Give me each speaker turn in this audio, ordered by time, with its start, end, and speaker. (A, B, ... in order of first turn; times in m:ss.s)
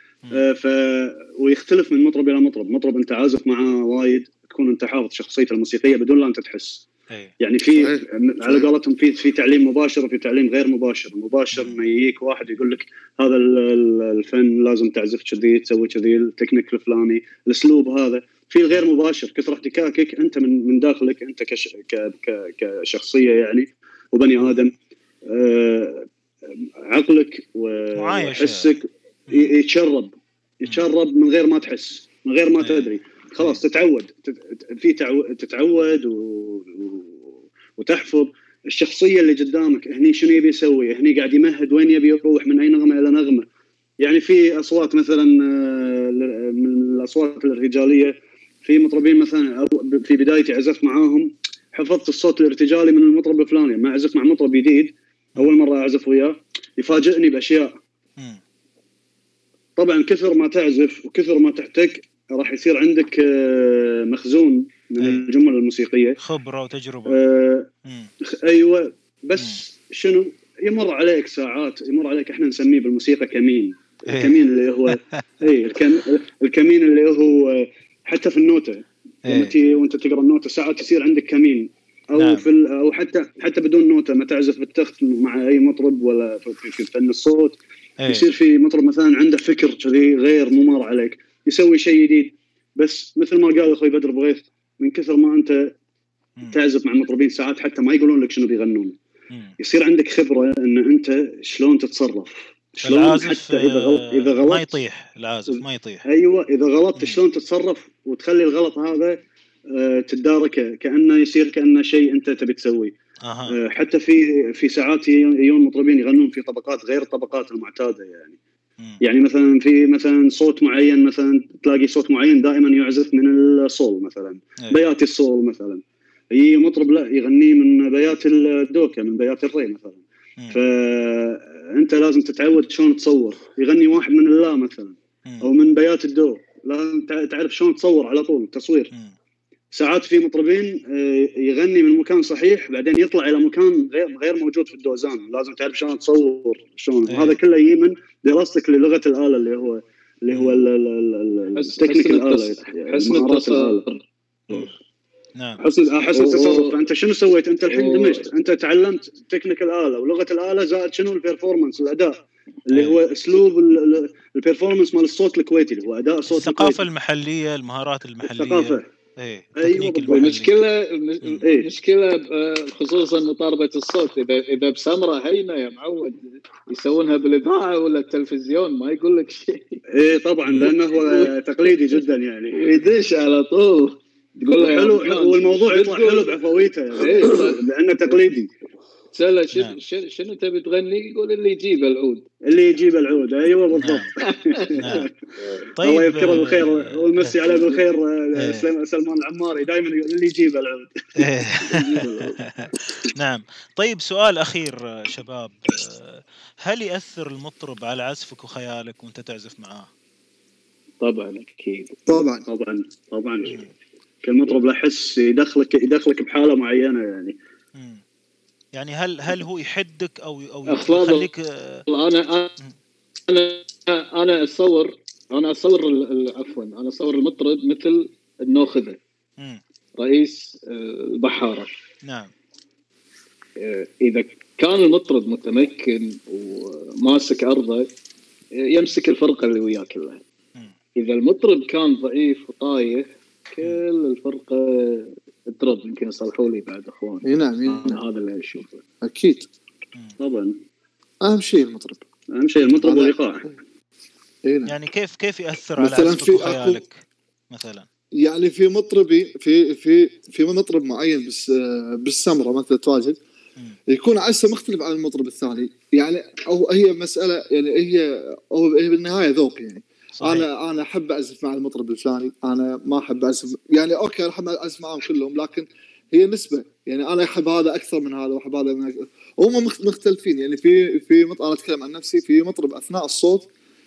0:00.3-0:06.9 A
0:07.4-0:24.7 A
0:07.7-0:08.7 B
0:11.5-0:11.8 C
0:25.3-0:26.0 A
0:26.9-0:37.2 A
0:28.0-0:28.8 C
0:32.6-0:33.6 C
0:37.8-0:43.5 A
0:44.0-0:57.7 A
0:59.8-1:06.2 A
1:05.0-1:05.3 C
1:06.2-1:07.2 C
1:07.1-1:07.7 A
1:07.8-1:08.1 C
1:08.2-1:35.6 A
1:09.4-1:09.6 C
1:14.1-1:15.2 C
1:19.3-1:19.6 C
1:22.2-1:22.4 C
1:28.0-1:28.3 C
1:36.5-1:39.0 A
1:39.6-1:44.8 A
1:42.8-1:46.0 C
1:45.5-1:49.2 A
1:49.7-1:52.9 A
1:53.2-1:53.6 C
1:53.5-1:58.4 A
1:59.0-2:18.9 A
2:19.7-2:33.8 A
2:27.1-2:27.4 C
2:30.3-2:30.6 C
2:31.6-2:34.0 D
2:35.6-2:46.8 A
2:36.1-2:36.8 D
2:37.7-2:38.3 D
2:42.7-2:43.0 C
2:46.3-2:50.6 C
2:48.2-2:48.9 A
2:49.6-2:50.4 A
2:50.1-2:59.8 D
2:51.4-2:51.7 A
3:00.0-3:02.6 A
3:00.5-3:00.7 C
3:02.6-3:06.3 D
3:04.6-3:08.5 A
3:07.0-3:07.6 D
3:09.1-3:12.2 D
3:12.5-3:15.1 A
3:13.7-3:14.1 C
3:14.3-3:14.9 D
3:14.8-3:15.1 C
3:15.8-3:17.4 C
3:15.8-3:22.3 A
3:18.4-3:18.7 C
3:21.2-3:29.9 C
3:31.0-3:32.1 D
3:32.1-3:32.5 B
3:32.5-3:33.6 A
3:34.2-3:37.4 A
3:37.8-3:38.0 C
3:38.7-3:41.8 C
3:40.7-3:41.3 D
3:41.9-3:42.5 D
3:43.3-3:49.0 D
3:50.0-3:51.7 D
3:52.1-3:52.3 C
3:53.6-3:57.9 D
3:58.6-4:00.2 D
4:01.0-4:08.8 D
4:07.2-4:08.0 B
4:09.0-4:09.5 B
4:10.2-4:10.6 A
4:11.2-4:12.0 B
4:12.3-4:13.4 A
4:12.8-4:13.5 B
4:14.4-4:14.7 B
4:14.7-4:17.9 C
4:15.8-4:16.8 B
4:18.2-4:23.2 B
4:23.9-4:43.5 B
4:30.2-4:30.5 C